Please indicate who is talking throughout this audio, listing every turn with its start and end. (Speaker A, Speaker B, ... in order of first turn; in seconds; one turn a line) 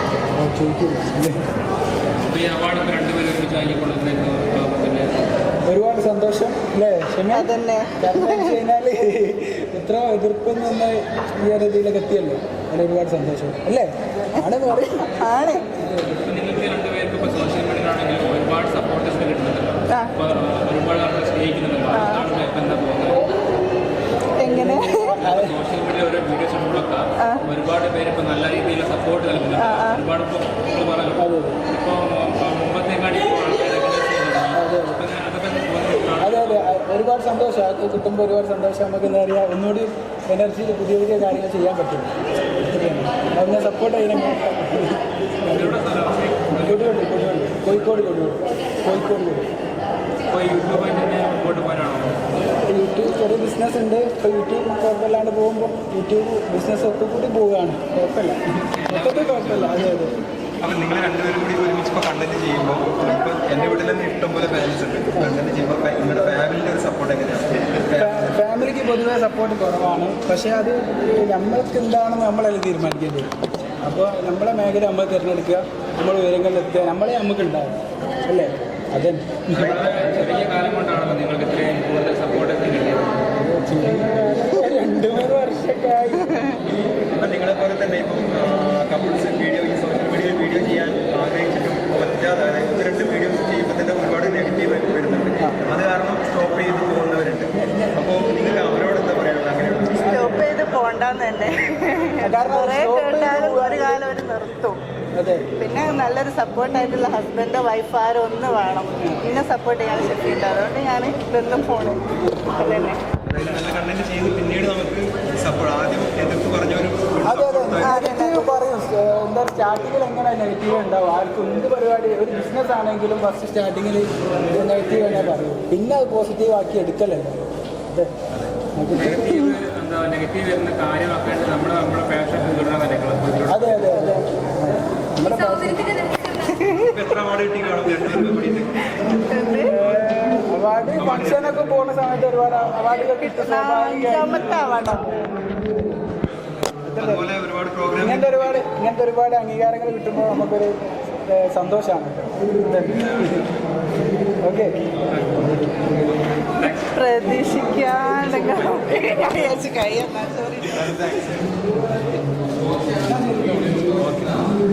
Speaker A: 0.3-1.4
Speaker B: 2.2-5.2
Speaker A: 5.7-16.1
Speaker C: 7.3-8.5
Speaker C: 15.2-15.7
Speaker B: 16.1-23.3
Speaker C: 21.9-22.3
Speaker C: 24.4-25.2
Speaker A: 24.4-25.5
Speaker B: 25.1-36.6
Speaker C: 29.6-30.0
Speaker A: 31.2-31.6
Speaker A: 34.5-35.0
Speaker A: 36.2-42.1
Speaker A: 42.6-45.8
Speaker B: 45.4-47.1
Speaker A: 46.6-49.5
Speaker B: 50.3-52.2
Speaker A: 52.7-60.1
Speaker B: 58.8-59.9
Speaker D: 60.6-68.3
Speaker A: 68.0-73.3
Speaker A: 73.8-79.8
Speaker B: 79.5-83.2
Speaker D: 79.5-80.1
Speaker A: 83.4-86.6
Speaker D: 87.1-100.0
Speaker A: 97.6-98.0
Speaker C: 100.0-104.8
Speaker A: 102.2-104.0
Speaker A: 105.2-105.5
Speaker C: 105.6-113.0
Speaker D: 113.3-117.9
Speaker A: 117.2-128.1
Speaker C: 117.8-118.5
Speaker A: 128.8-129.6
Speaker B: 128.9-134.0
Speaker A: 133.5-136.1
Speaker C: 136.2-136.9
Speaker D: 136.9-139.0
Speaker C: 139.3-139.8
Speaker A: 139.6-145.0
Speaker D: 141.0-141.4
Speaker C: 143.2-145.1
Speaker A: 146.9-147.3
Speaker D: 147.0-148.6
Speaker A: 148.0-153.5
Speaker A: 154.4-154.7
Speaker B: 155.1-156.9
Speaker C: 156.6-160.9
Speaker D: 160.7-161.5
Speaker B: 162.8-163.1
Speaker A: 163.1-164.0
Speaker B: 163.7-164.4